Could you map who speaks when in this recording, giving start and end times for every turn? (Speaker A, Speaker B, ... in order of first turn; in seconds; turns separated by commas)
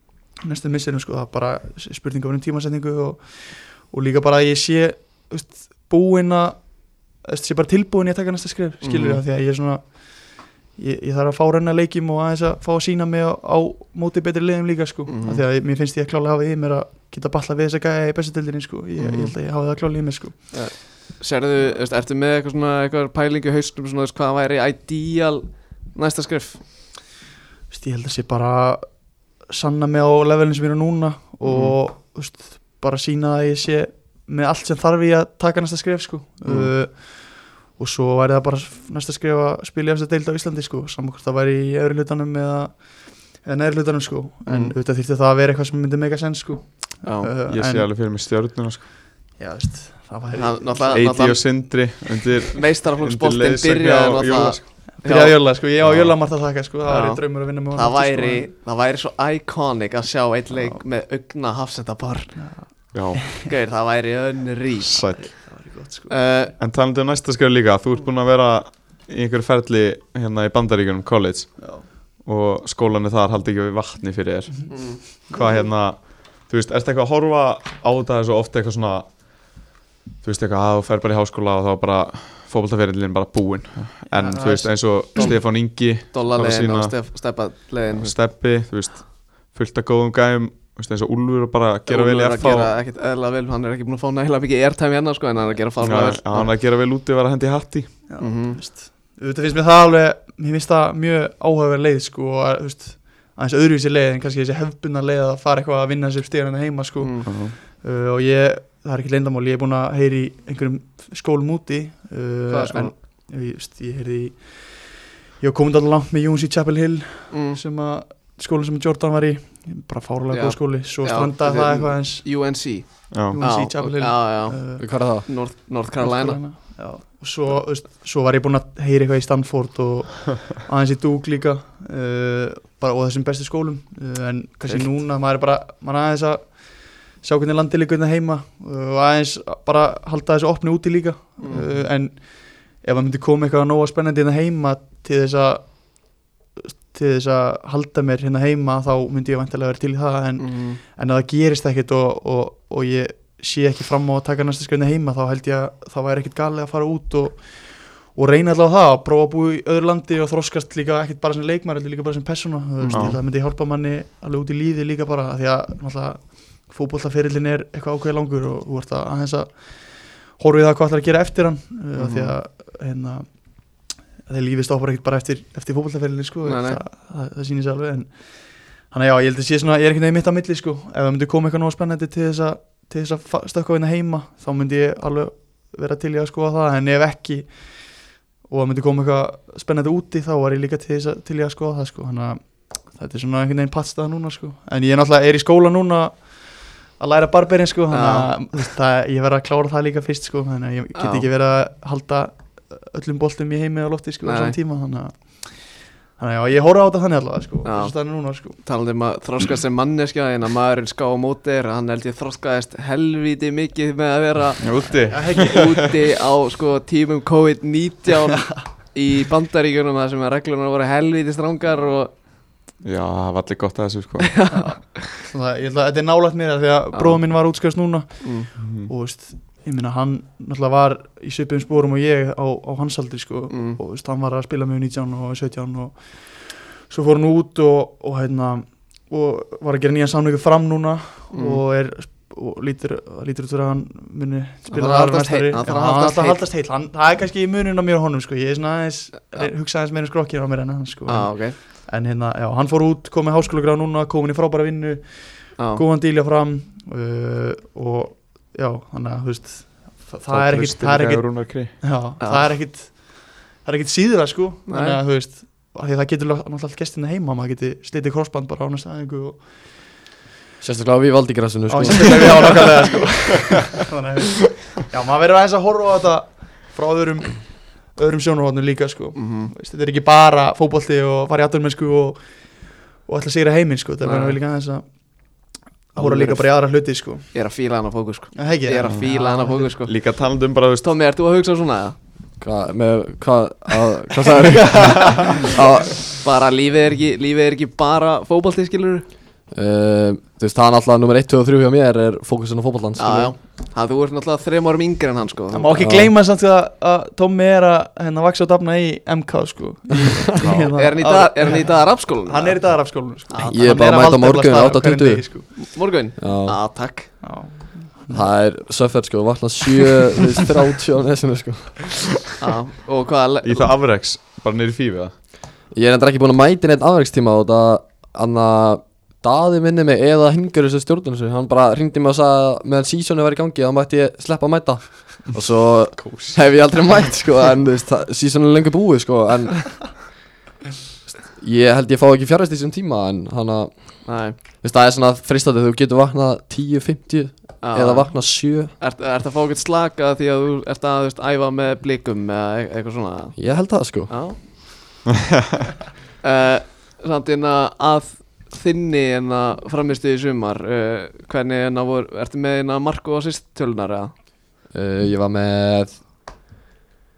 Speaker A: 0.3-20.6, Speaker B: 8.8-9.2, Speaker B: 15.1-15.4, Speaker B: 19.0-19.4, Speaker B: 20.5-26.6, Speaker A: 27.7-47.9, Speaker B: 31.4-31.8, Speaker B: 36.5-36.7, Speaker B: 44.5-44.8, Speaker B: 47.0-47.3, Speaker C: 47.5-48.9, Speaker A: 49.4-51.3, Speaker B: 50.3-51.7, Speaker C: 50.9-54.7, Speaker B: 52.5-55.4, Speaker A: 54.9-58.5, Speaker C: 55.8-56.1, Speaker B: 56.9-62.4, Speaker A: 60.5-60.8, Speaker A: 62.4-63.5, Speaker C: 62.9-63.2, Speaker B: 63.4-65.1, Speaker A: 64.9-66.1, Speaker C: 64.9-65.3, Speaker B: 66.1-66.5, Speaker C: 66.6-79.2, Speaker A: 71.6-71.8, Speaker B: 74.7-75.0, Speaker C: 80.2-87.0, Speaker A: 84.1-85.3, Speaker B: 86.1-88.2, Speaker C: 87.9-92.7, Speaker B: 91.9-96.5, Speaker C: 95.8-98.0, Speaker A: 98.1-122.3, Speaker B: 98.2-98.6, Speaker B: 107.0-107.3, Speaker C: 107.3-107.5, Speaker B: 112.5-112.9, Speaker B: 117.3-117.6, Speaker B: 120.3-126.4, Speaker C: 123.1-123.4, Speaker A: 123.3-124.9, Speaker D: 124.8-125.3, Speaker A: 126.0-187.7, Speaker B: 141.4-141.8, Speaker B: 150.4-150.8, Speaker B: 162.8-163.2, Speaker C: 162.9-163.2, Speaker B: 172.0-172.3, Speaker B: 176.4-176.8, Speaker A: 188.5-208.6, Speaker B: 197.9-198.3, Speaker B: 200.9-201.3, Speaker B: 204.2-204.6, Speaker B: 207.7-207.9, Speaker B: 208.6-222.1, Speaker C: 214.6-215.9, Speaker A: 215.1-215.7, Speaker C: 222.8-224.3, Speaker B: 224.3-224.8, Speaker A: 224.5-269.8, Speaker B: 226.9-227.2, Speaker C: 228.6-228.9, Speaker B: 233.5-233.8, Speaker B: 241.3-241.6, Speaker B: 244.7-246.4, Speaker B: 251.1-251.6, Speaker B: 255.6-255.8, Speaker C: 260.3-261.8, Speaker B: 262.2-262.4, Speaker B: 264.7-265.0, Speaker D: 270.6-272.7, Speaker A: 271.7-282.2, Speaker B: 279.2-279.5, Speaker A: 282.9-284.9, Speaker B: 284.0-284.4, Speaker B: 285.9-286.5, Speaker A: 285.9-287.3, Speaker B: 287.3-289.9, Speaker A: 288.4-289.8, Speaker C: 289.9-290.9, Speaker B: 290.8-292.0, Speaker D: 292.4-296.2, Speaker B: 296.1-299.1, Speaker D: 299.5-303.3, Speaker B: 303.0-305.8, Speaker A: 305.5-315.5, Speaker D: 305.8-306.1, Speaker C: 310.4-310.7, Speaker B: 310.7-312.6, Speaker B: 313.3-313.9, Speaker D: 313.5-315.2, Speaker B: 315.6-317.1, Speaker D: 316.2-316.6, Speaker A: 317.2-318.3, Speaker D: 318.1-322.0, Speaker B: 322.4-323.7, Speaker C: 323.4-325.1, Speaker D: 325.7-340.1, Speaker C: 336.0-336.4, Speaker D: 341.4-348.7, Speaker B: 344.1-344.4, Speaker B: 347.6-354.4, Speaker D: 353.4-354.2, Speaker B: 356.2-364.1, Speaker D: 364.7-366.0